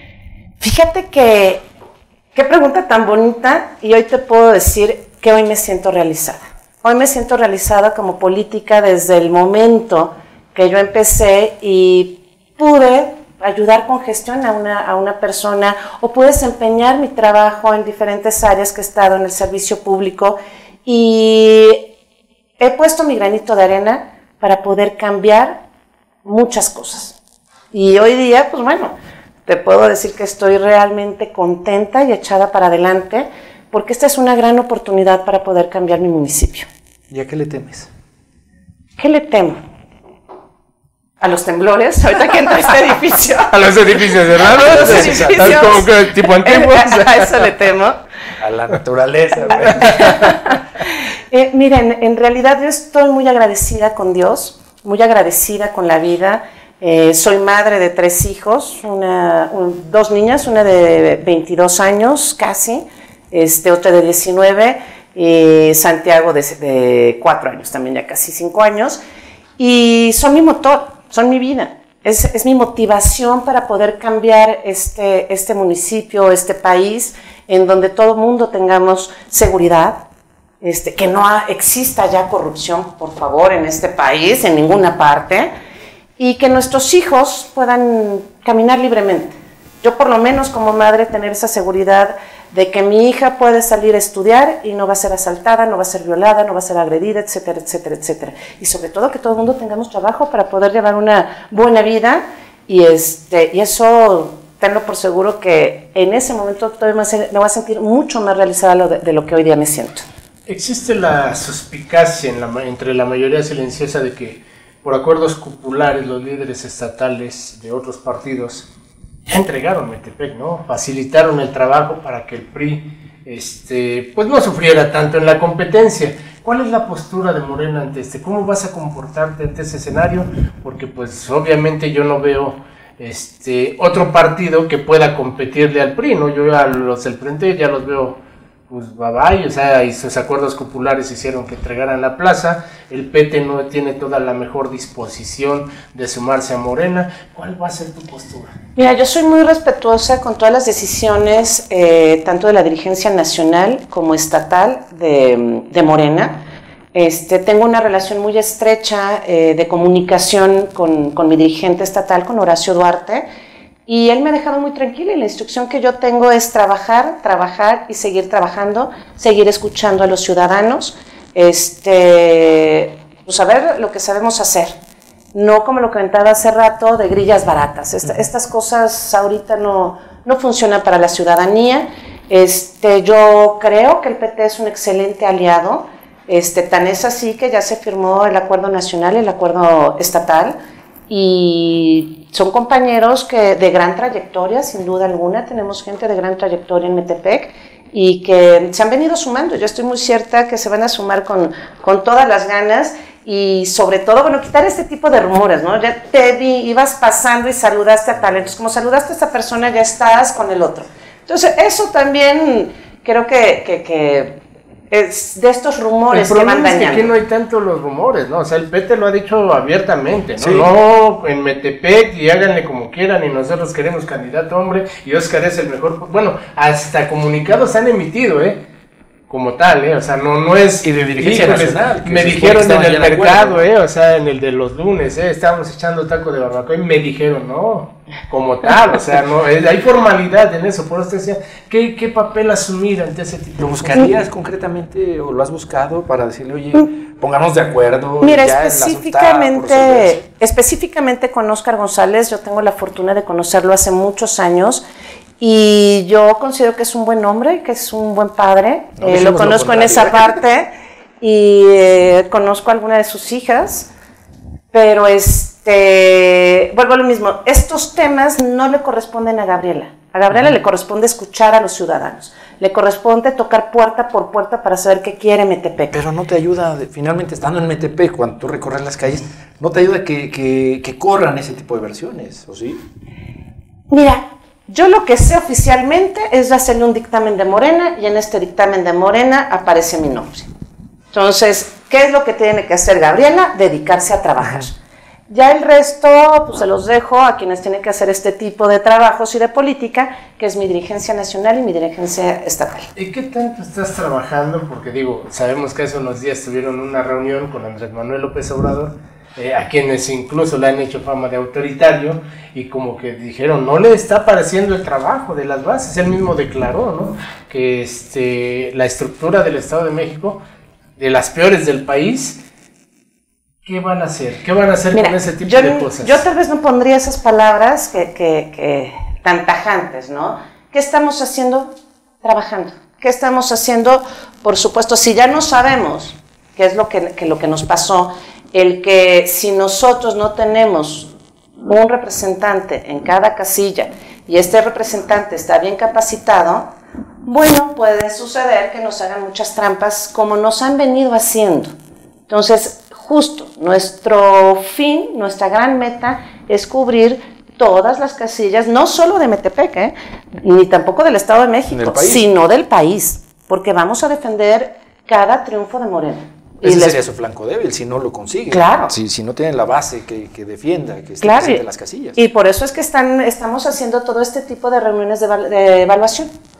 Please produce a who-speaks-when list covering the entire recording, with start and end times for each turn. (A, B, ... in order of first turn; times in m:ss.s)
0:00.6-0:01.6 A
0:02.3-0:21.8 A
0:22.6-0:25.6 A
0:26.2-0:27.2 A
0:27.7-0:28.9 A
0:29.4-0:36.7 A
0:37.1-0:37.9 B
0:39.0-0:39.6 A
0:41.2-0:43.5 A
0:43.5-0:47.5 C
0:44.4-0:48.0 A
0:44.5-0:45.8 B
0:48.4-0:50.3 B
0:49.5-1:09.0 A
1:09.6-1:20.0 A
1:20.6-1:25.5 A
1:26.2-1:50.0 A
1:50.5-1:58.7 C
1:59.3-2:28.5 C
2:28.8-2:36.4 A
2:36.9-2:43.2 A
2:43.9-2:54.7 A
2:55.3-3:10.5 A
3:11.1-3:34.4 A
3:34.9-3:37.1 A
3:36.1-3:48.6 C
3:40.4-3:40.7 B
3:49.3-4:04.1 C
3:50.8-3:53.6 B
4:03.6-4:10.2 B
4:08.2-4:14.8 A
4:15.4-4:20.7 A
4:19.0-4:20.4 B
4:21.2-4:23.9 A
4:24.7-4:35.9 A
4:35.9-4:42.8 B
4:43.9-4:50.5 A
4:51.1-4:54.8 A
4:55.3-5:02.9 A
5:03.0-5:20.4 C
5:21.0-5:22.4 C
5:23.6-5:26.2 C
5:24.9-5:41.1 A
5:41.6-5:46.7 A
5:47.2-5:51.7 A
5:52.3-6:07.0 A
6:01.7-6:02.3 B
6:06.6-6:12.2 B
6:08.5-6:08.9 A
6:11.2-6:11.6 A
6:12.2-6:16.3 A